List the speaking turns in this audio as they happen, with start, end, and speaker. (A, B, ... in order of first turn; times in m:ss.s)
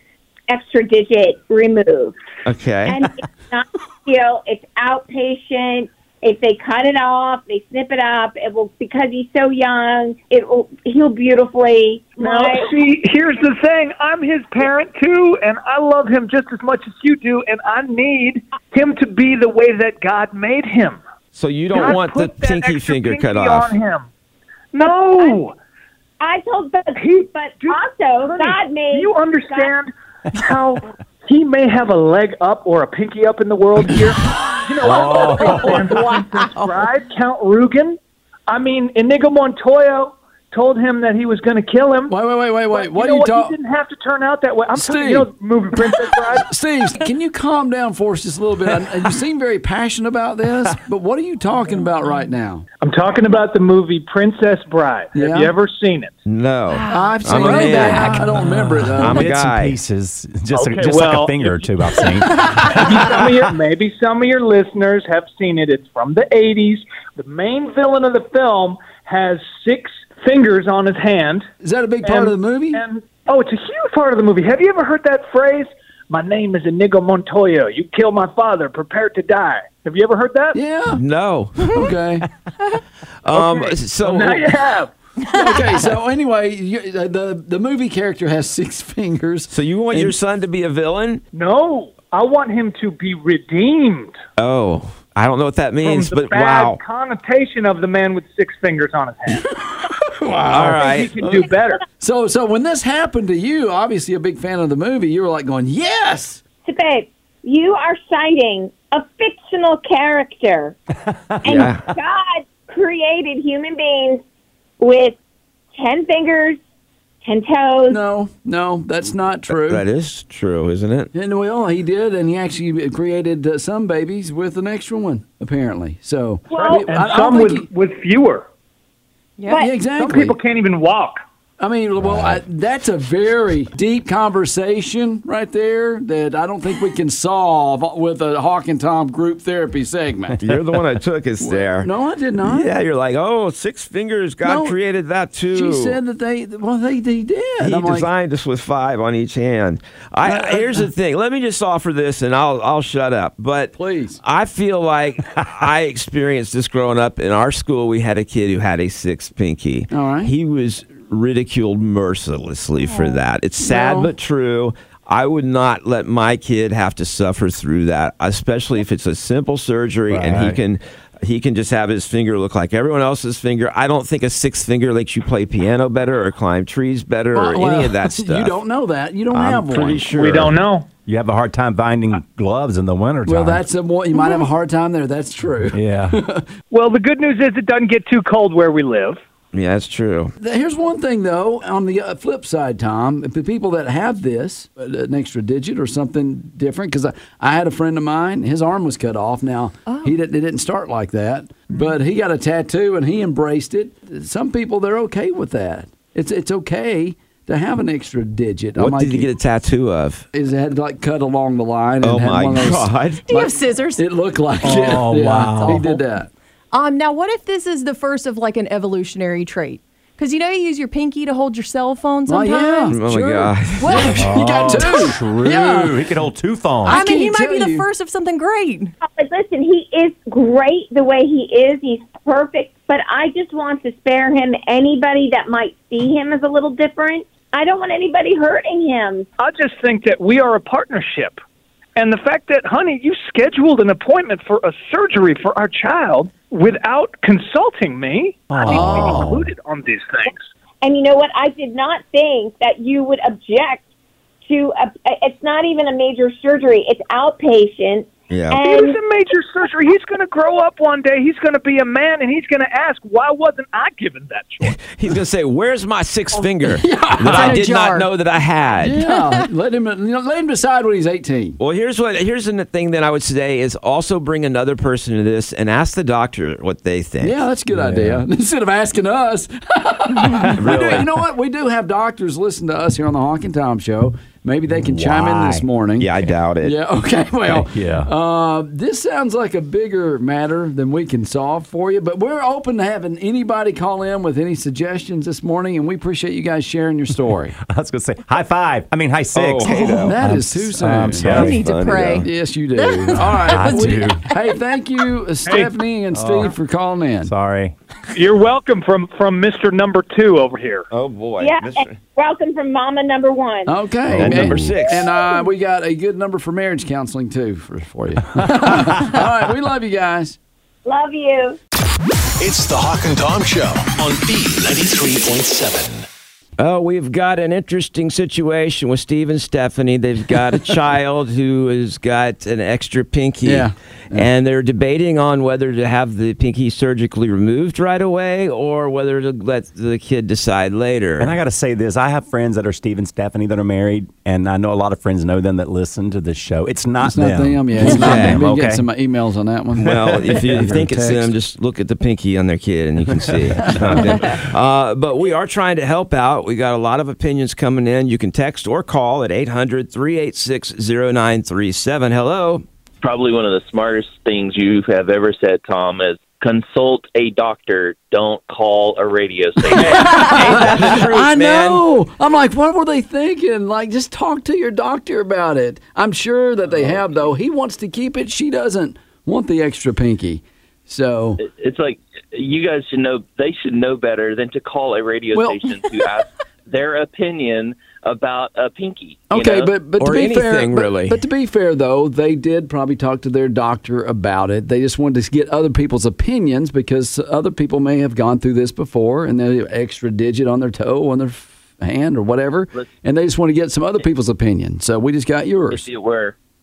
0:00.5-0:02.2 A
0:02.4-0:03.1 B
0:02.9-0:12.7 A
0:12.2-0:21.0 C
0:21.3-0:23.7 B
0:21.7-0:24.1 C
0:24.7-0:25.6 C
0:26.2-0:29.7 A
0:27.0-0:42.2 C
0:34.8-0:35.9 D
0:34.9-0:35.4 A
0:36.2-0:36.7 E
0:42.1-0:43.6 F
0:42.7-0:46.5 C
0:44.8-0:45.3 F
0:46.4-0:52.7 F
0:52.8-0:56.1 C
0:55.1-0:55.5 F
0:56.3-0:58.3 B
0:56.7-0:58.2 E
0:56.9-0:59.3 F
0:58.5-1:02.4 D
0:59.0-0:59.8 B
1:00.5-1:11.5 C
1:11.6-1:12.8 F
1:12.0-1:20.6 C
1:20.5-1:21.0 F
1:20.9-1:21.8 B
1:21.7-1:22.3 F
1:23.2-1:24.5 B
1:23.3-1:24.9 C
1:25.3-1:30.1 F
1:29.5-1:31.2 B
1:31.3-1:34.2 C
1:34.4-1:36.8 B
1:35.8-1:39.5 C
1:39.9-1:40.8 F
1:40.5-1:41.8 C
1:40.5-1:41.2 B
1:42.0-1:46.4 F
1:46.6-1:50.8 A
1:51.1-1:51.7 D
1:51.4-1:54.2 A
1:51.4-1:51.8 B
1:54.8-1:55.2 A
1:55.7-1:56.6 A
1:57.2-1:58.0 A
1:57.9-1:59.8 F
1:59.5-2:01.1 B
2:01.1-2:07.7 F
2:06.5-2:06.8 A
2:06.5-2:08.5 C
2:09.4-2:09.7 E
2:09.5-2:10.4 F
2:09.9-2:11.2 C
2:11.6-2:20.4 F
2:12.0-2:12.4 D
2:20.4-2:21.9 B
2:21.4-2:22.7 F
2:22.4-2:26.0 B
2:24.4-2:24.8 F
2:25.5-2:28.1 F
2:27.6-2:58.6 B
2:30.2-2:30.9 F
2:33.7-2:34.2 F
2:39.9-2:40.3 F
2:43.6-2:44.1 F
2:50.1-2:50.6 D
2:57.3-3:00.0 F
2:59.3-3:00.6 B
3:00.1-3:00.9 C
3:01.1-3:03.6 D
3:03.3-3:06.5 F
3:05.7-3:06.2 D
3:06.7-3:09.2 C
3:09.5-3:10.3 B
3:10.4-3:29.3 F
3:19.9-3:20.1 E
3:28.8-3:30.2 B
3:30.3-3:32.9 F
3:32.0-3:33.5 B
3:33.3-3:34.0 E
3:34.0-3:36.3 F
3:34.6-3:35.9 D
3:35.6-3:36.0 E
3:36.7-3:43.0 E
3:42.3-3:46.1 F
3:42.9-3:44.1 B
3:43.8-3:45.1 E
3:44.1-3:47.0 D
3:46.8-3:47.9 F
3:46.8-3:48.9 E
3:49.0-3:59.3 A
3:59.4-4:01.4 C
4:02.0-4:10.5 C
4:08.5-4:09.5 D
4:08.7-4:09.4 F
4:10.8-4:13.8 A
4:14.4-4:19.0 A
4:18.3-4:18.6 B
4:18.6-4:24.8 C
4:24.6-4:29.0 B
4:26.8-4:27.6 F
4:27.3-4:28.1 E
4:28.8-4:31.6 F
4:29.0-4:29.4 E
4:31.6-4:37.4 B
4:37.2-4:46.1 F
4:37.7-4:38.2 D
4:40.4-4:41.1 B
4:44.7-4:46.3 D
4:46.0-4:46.8 B
4:46.6-4:57.6 F
4:47.5-4:48.1 D
4:57.6-5:01.7 D
4:59.3-5:00.2 B
4:59.8-5:01.6 F
5:01.2-5:02.3 B
5:01.3-5:04.1 E
5:02.2-5:07.3 F
5:03.4-5:04.2 D
5:05.4-5:05.8 C
5:06.1-5:06.6 D
5:07.2-5:07.8 D
5:08.1-5:10.9 C
5:10.9-5:12.0 B
5:11.4-5:13.8 A
5:13.7-5:20.4 F
5:14.1-5:14.8 D
5:14.2-5:15.1 B
5:18.4-5:19.0 D
5:20.8-5:21.6 A
5:22.4-5:26.1 G
5:26.6-5:41.3 B
5:33.4-5:34.3 F
5:41.2-5:48.9 D
5:47.1-5:51.3 F
5:47.9-5:48.4 B
5:49.8-6:02.6 B
5:50.3-5:50.8 D
5:53.3-5:54.3 D
5:53.6-5:54.2 F
6:03.0-6:10.4 H
6:09.7-6:21.4 F
6:09.8-6:11.8 B
6:21.4-6:29.7 H
6:25.4-6:25.6 F
6:29.3-6:45.9 F
6:30.0-6:31.2 B
6:45.7-6:46.4 H